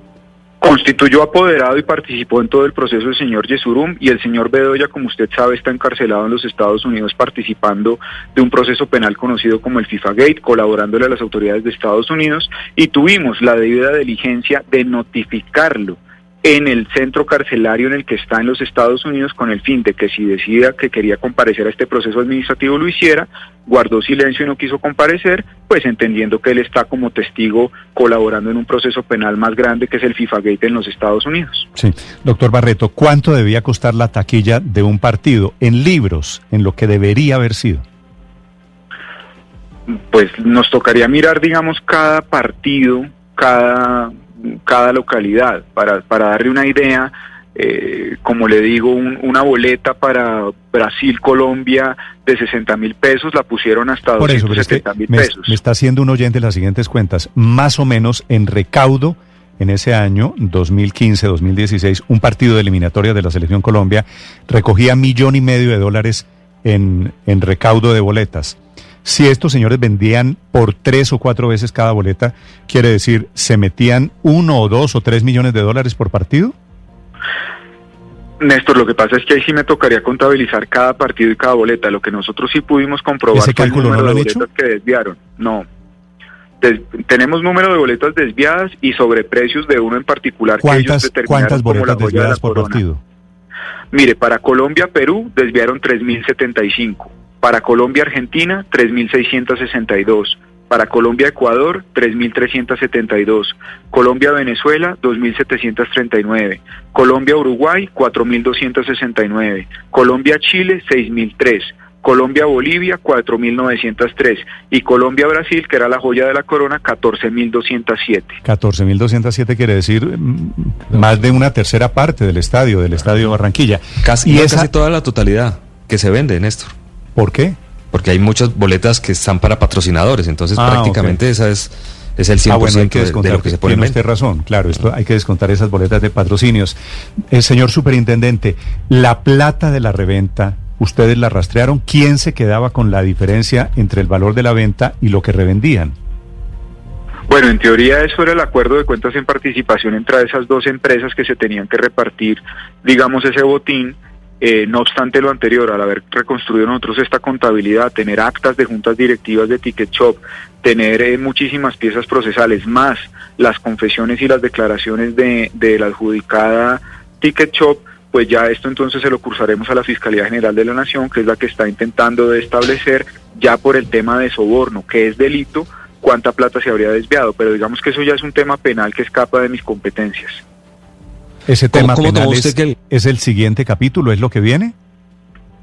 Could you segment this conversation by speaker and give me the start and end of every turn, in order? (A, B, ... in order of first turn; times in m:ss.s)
0:00.6-0:31.7 A
0:31.8-0:37.8 B
0:39.9-0:55.6 A
0:54.2-1:16.5 B
1:18.4-1:25.7 A
1:23.3-1:24.4 B
1:26.6-1:32.8 A
1:30.6-1:33.0 B
1:33.9-1:58.4 A
1:58.4-2:04.7 B
2:04.0-2:06.7 C
2:07.2-2:07.6 B
2:07.9-2:14.0 C
2:10.6-2:11.2 B
2:12.5-2:16.8 B
2:17.3-2:25.9 B
2:27.3-3:00.4 A
3:01.5-3:04.7 B
3:01.7-3:02.8 C